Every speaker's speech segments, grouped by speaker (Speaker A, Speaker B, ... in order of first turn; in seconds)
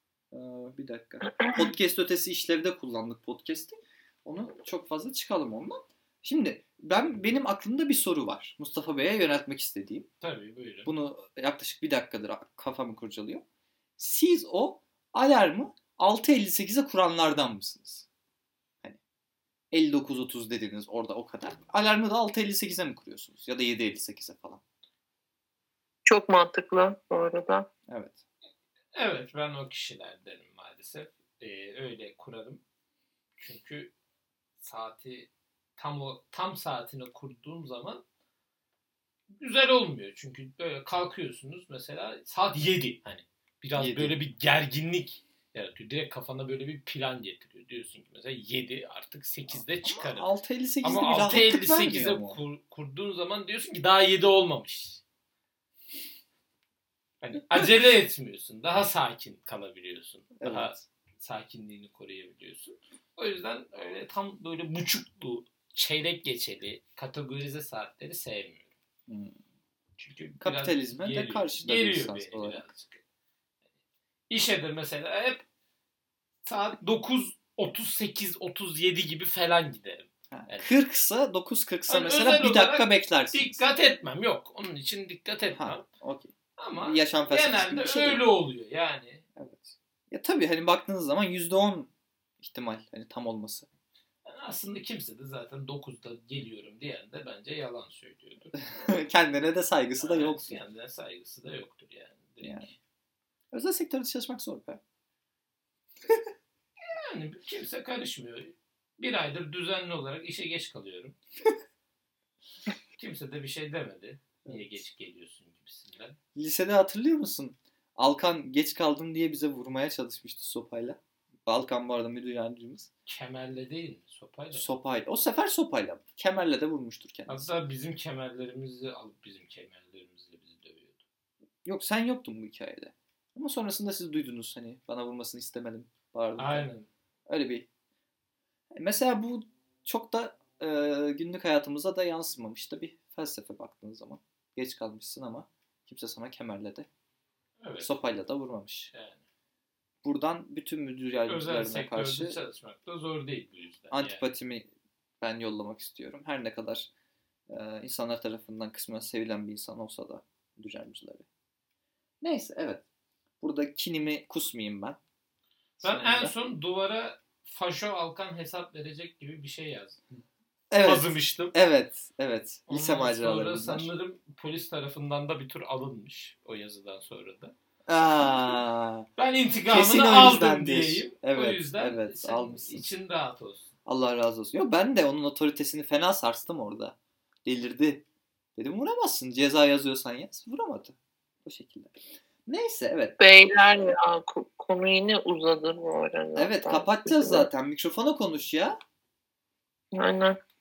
Speaker A: 0.3-10.1, 10.8-13.4, 14.0-18.1, 19.7-24.6, 27.9-28.2, 43.8-44.2, 49.5-52.4, 60.4-60.8, 69.1-69.4, 70.4-72.6, 80.3-83.6, 85.5-88.2, 89.4-93.7, 98.6-100.6, 102.4-102.7, 103.5-104.8, 116.3-122.9, 124.5-127.5, 131.6-136.7, 137.3-137.7, 138.8-146.9, 147.8-148.9, 150.0-152.4, 153.9-154.7, 155.2-156.9, 157.5-161.3, 162.2-162.8, 163.4-165.0, 165.8-166.3, 170.1-173.9, 177.9-179.1, 179.7-182.9, 183.9-188.0, 188.6-191.9, 192.5-193.2, 196.4-198.8
Speaker B: 10.2-10.9, 28.9-32.6, 33.4-33.9, 34.6-38.0, 39.4-50.3, 50.8-55.0, 57.2-68.7, 70.0-73.0, 74.3-75.4, 76.5-80.7, 81.9-85.9, 86.6-89.2, 94.2-98.6, 100.0-102.7, 106.8-111.1, 113.0-116.2, 123.1-124.7, 127.3-131.0, 136.4-136.9, 147.6-147.9, 148.9-149.2, 151.3-154.2, 165.8-170.0, 170.8-171.6, 172.7-177.5, 179.2-183.7
Speaker C: 26.1-27.7, 193.2-197.5, 199.9-200.4